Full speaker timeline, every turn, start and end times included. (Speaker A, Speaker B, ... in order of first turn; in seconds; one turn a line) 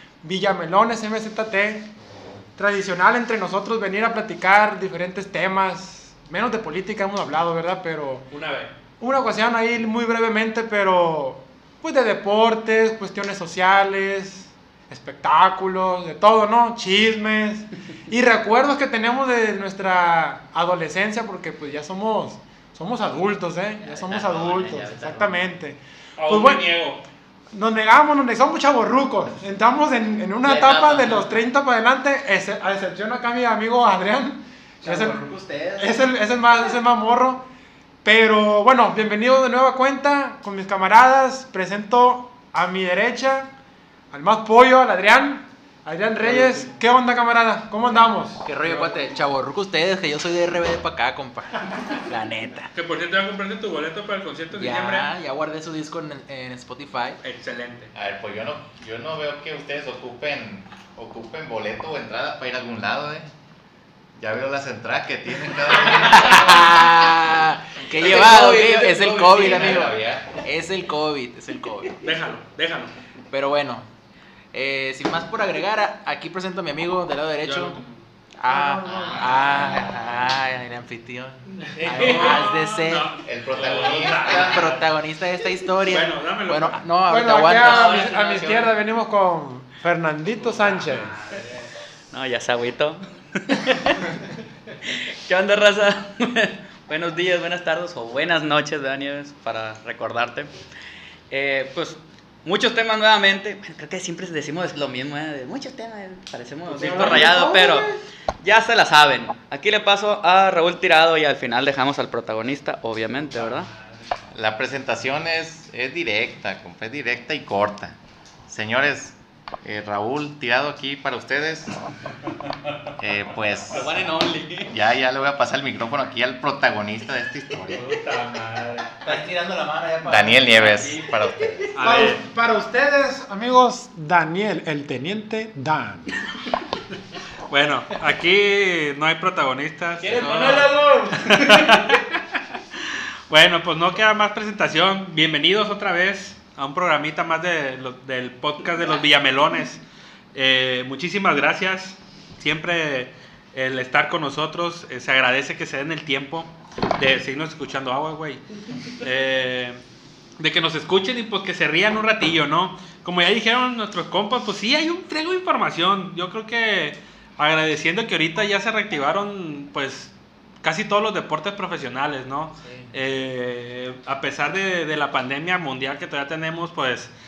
Speaker A: 0.2-1.9
Speaker A: 2.6-8.3
Speaker B: 8.3-8.7
Speaker A: 9.0-26.7
Speaker C: 24.0-25.3
Speaker D: 24.1-25.2
Speaker B: 26.2-27.0
Speaker A: 27.5-37.5
Speaker D: 30.4-31.3
Speaker E: 34.8-36.0
Speaker A: 38.0-43.5
Speaker A: 44.1-48.5
Speaker E: 46.2-46.7
Speaker E: 48.5-52.7
Speaker B: 52.8-55.1
Speaker E: 54.5-57.2
Speaker B: 57.2-57.9
Speaker C: 57.9-63.3
Speaker C: 64.2-67.2
Speaker E: 65.9-72.0
Speaker C: 68.0-70.4
Speaker D: 68.4-69.6
Speaker B: 72.0-72.9
Speaker E: 73.3-73.9
Speaker E: 74.5-77.8
Speaker B: 77.4-77.9
Speaker E: 78.4-83.2
Speaker A: 78.5-79.7
Speaker C: 78.9-80.0
Speaker B: 81.7-84.9
Speaker C: 83.2-84.7
Speaker E: 84.0-88.0
Speaker B: 85.9-86.8
Speaker A: 87.1-91.2
Speaker B: 87.6-88.7
Speaker D: 87.6-88.2
Speaker B: 90.6-91.4
Speaker D: 92.1-94.1
Speaker D: 94.8-100.5
Speaker D: 101.3-107.9
Speaker B: 106.7-107.3
Speaker A: 106.7-108.0
Speaker D: 108.4-113.7
Speaker C: 114.3-118.0
Speaker C: 118.5-121.8
Speaker C: 123.0-124.1
Speaker D: 123.7-124.7
Speaker C: 124.7-128.0
Speaker B: 127.7-129.2
Speaker E: 129.0-130.9
Speaker C: 130.1-131.7
Speaker D: 130.8-131.7
Speaker B: 131.8-132.2
Speaker A: 131.8-136.1
Speaker B: 137.5-140.4
Speaker E: 140.0-141.7
Speaker A: 140.4-140.9
Speaker B: 141.1-142.0
Speaker B: 143.3-149.8
Speaker B: 150.3-159.8
Speaker B: 160.4-177.1